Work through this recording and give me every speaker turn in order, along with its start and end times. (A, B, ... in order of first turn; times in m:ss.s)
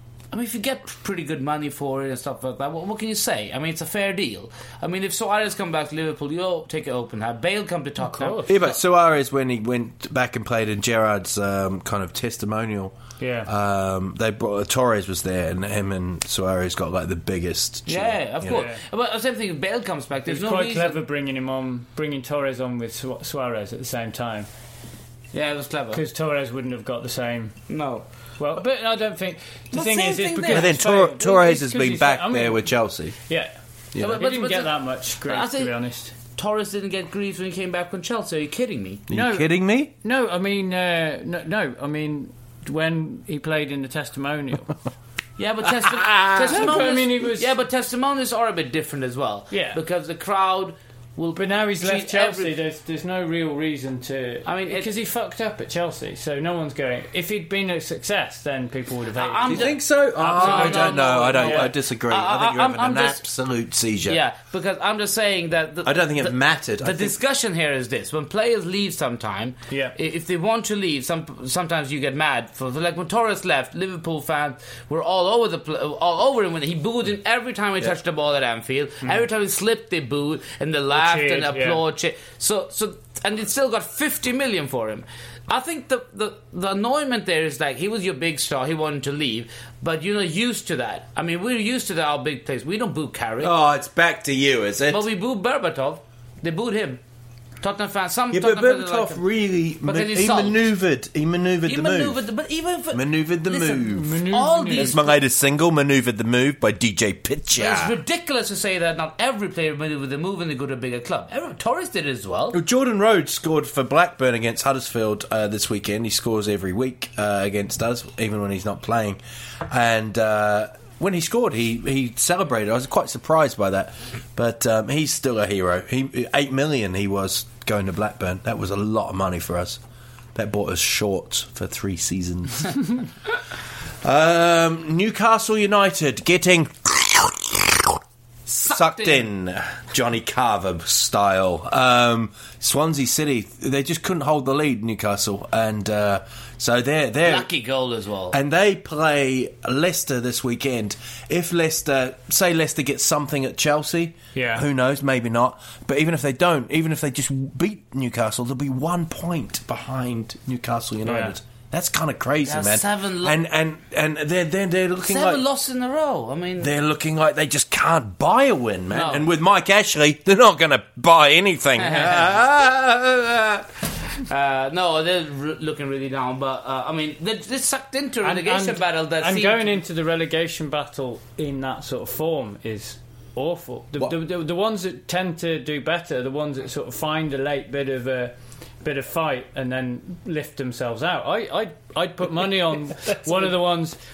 0:00.3-0:08.6 A
0:08.0-0:08.6 B
0:08.5-0:18.6 C
0:13.2-0:13.5 B
0:17.9-0:21.0 A
0:18.5-0:18.8 B
0:20.2-0:24.5 B
0:25.3-0:26.0 A
0:25.9-0:27.6 B
0:27.7-0:28.0 A
0:28.4-0:32.7 B
0:29.7-0:30.8 A
0:30.5-0:33.2 C
0:33.3-0:33.5 B
0:33.9-0:34.2 C
0:34.0-0:39.0 A
0:34.1-0:36.2 B
0:39.1-0:39.9 C
0:39.1-0:44.8 B
0:45.4-0:52.5 A
0:46.0-0:46.8 C
0:46.5-0:47.5 B
0:49.5-0:49.8 B
0:51.4-1:01.7 B
0:54.4-0:54.9 A
0:59.1-1:03.2 A
0:59.5-1:04.2 C
1:04.1-1:33.5 A
1:05.8-1:07.2 C
1:09.7-1:09.9 B
1:20.9-1:21.8 B
1:33.4-1:35.0 C
1:34.9-1:37.0 A
1:37.6-1:39.2 A
1:38.3-1:42.2 C
1:39.8-1:40.7 A
1:41.6-1:45.2 A
1:42.9-1:44.2 C
1:43.9-1:44.9 B
1:44.7-1:48.0 C
1:47.5-1:52.6 A
1:52.5-2:09.8 C
2:10.3-2:13.0 C
2:14.0-2:18.0 C
2:18.5-2:19.3 A
2:18.6-2:27.5 C
2:27.2-2:28.4 A
2:28.3-2:45.4 C
2:34.3-2:34.6 B
2:41.0-2:41.3 B
2:42.4-2:43.4 A
2:45.0-2:46.7 A
2:46.6-2:53.6 C
2:48.9-2:49.2 A
2:51.8-2:52.5 A
2:54.1-2:59.8 A
2:58.2-3:14.0 B
3:13.1-3:13.4 C